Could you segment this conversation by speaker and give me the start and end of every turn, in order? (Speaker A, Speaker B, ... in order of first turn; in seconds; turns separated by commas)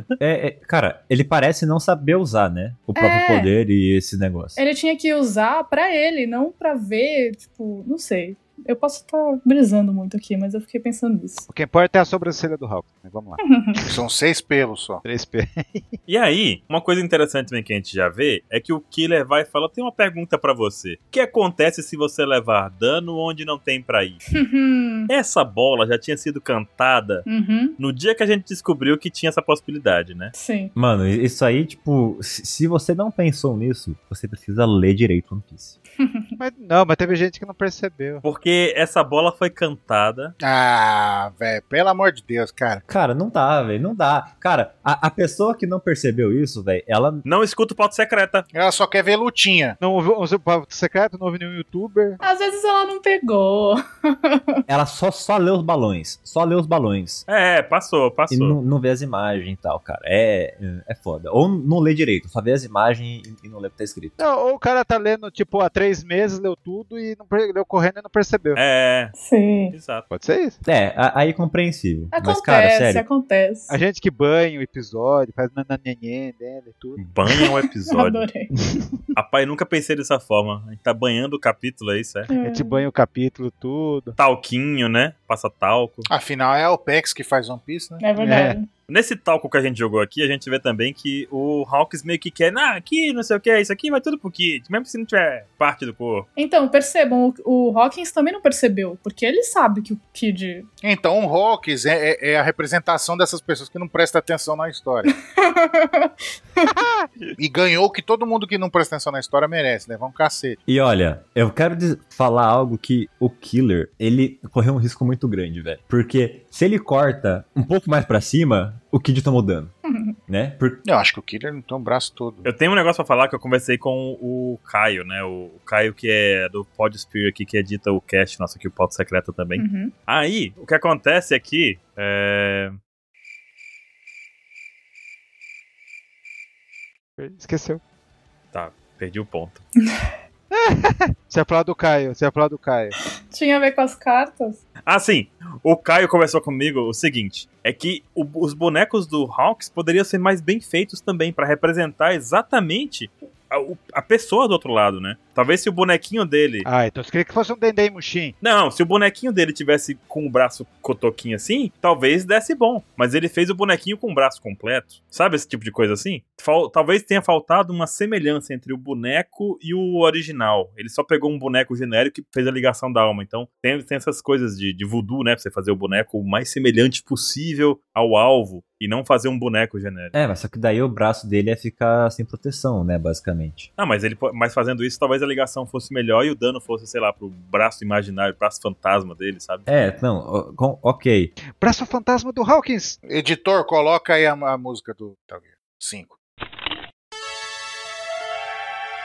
Speaker A: 0.2-4.6, Speaker B: 3.0-3.5, Speaker B: 4.5-11.5, Speaker C: 11.5-13.4, Speaker B: 13.5-13.8, Speaker D: 13.9-15.0, Speaker C: 15.0-15.9, Speaker E: 16.1-24.2, Speaker B: 24.3-25.1, Speaker E: 25.1-27.2, Speaker B: 27.2-27.8, Speaker E: 27.8-30.3, Speaker B: 30.3-30.7, Speaker A: 30.7-35.8, Speaker B: 36.0-36.3, Speaker C: 36.4-38.2, Speaker E: 38.2-40.3, Speaker D: 40.4-42.8, Speaker A: 42.9-47.2, Speaker E: 47.2-48.5, Speaker D: 48.5-49.8, Speaker C: 49.8-52.2, Speaker B: 52.2-54.6, Speaker A: 54.7-57.2, Speaker E: 57.3-58.5, Speaker A: 58.3-64.2, Speaker C: 64.2-68.6, Speaker E: 68.5-69.1, Speaker B: 69.2-69.7, Speaker E: 69.7-70.1, Speaker C: 70.1-70.6, Speaker A: 70.6-73.0, Speaker B: 72.1-73.8, Speaker C: 73.7-77.1, Speaker E: 77.0-78.2, Speaker B: 77.3-78.5, Speaker C: 78.6-78.9, Speaker E: 79.1-82.3, Speaker B: 82.3-82.8, Speaker C: 82.4-84.2, Speaker E: 84.2-86.1, Speaker D: 86.1-88.0, Speaker B: 88.0-88.7, Speaker C: 88.2-88.6, Speaker E: 88.9-96.3, Speaker B: 96.3-100.7, Speaker D: 100.8-105.1, Speaker B: 105.3-106.7, Speaker C: 106.6-107.3, Speaker D: 107.4-110.6, Speaker A: 110.7-119.7, Speaker B: 119.8-120.2, Speaker A: 120.3-120.8, Speaker D: 120.8-122.5, Speaker E: 122.4-132.8, Speaker B: 129.6-129.9, Speaker C: 137.2-137.8, Speaker E: 138.5-139.6, Speaker C: 140.5-142.9, Speaker B: 143.3-144.6, Speaker E: 144.8-156.7, Speaker C: 156.6-158.3, Speaker E: 158.4-180.1, Speaker A: 180.1-183.7, Speaker E: 183.8-189.7, Speaker A: 189.7-191.3, Speaker C: 191.6-193.0, Speaker D: 193.0-196.1